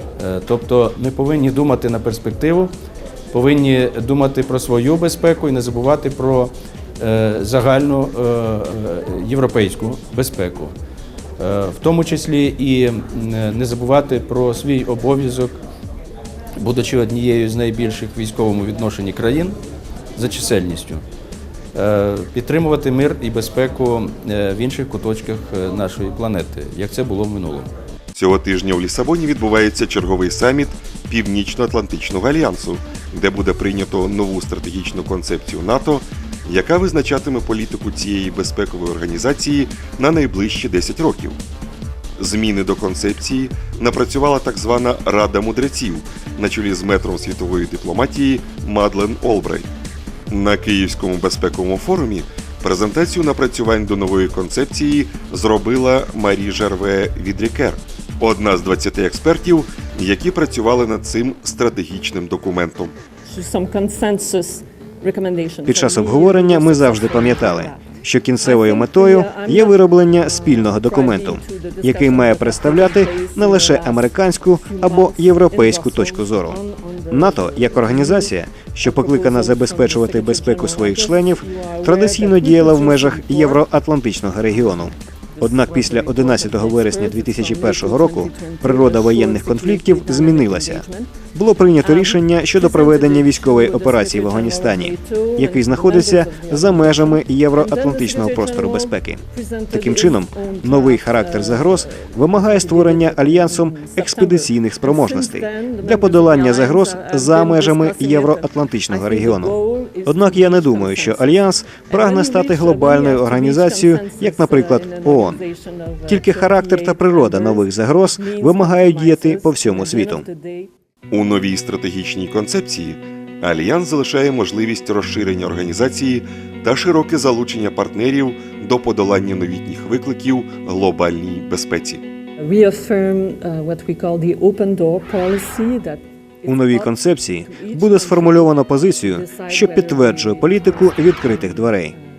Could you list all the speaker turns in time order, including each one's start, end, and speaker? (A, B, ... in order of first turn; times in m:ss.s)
0:00.2-0:02.7 A
0:03.3-0:10.7 A
0:11.4-0:15.6 A
0:16.6-0:19.6 A
0:20.1-0:21.0 A
0:21.7-0:27.7 A
0:28.1-0:41.4 B
0:42.2-0:49.7 B
0:50.3-1:02.9 B
1:03.2-1:23.7 C
1:05.7-1:16.6 D
1:17.1-1:49.5 D
1:24.5-1:31.3 C
1:31.8-2:00.7 C
1:50.0-1:55.4 D
1:56.1-2:00.2 D
2:01.1-2:12.0 B
2:12.4-2:21.9 C
2:16.4-2:21.9 D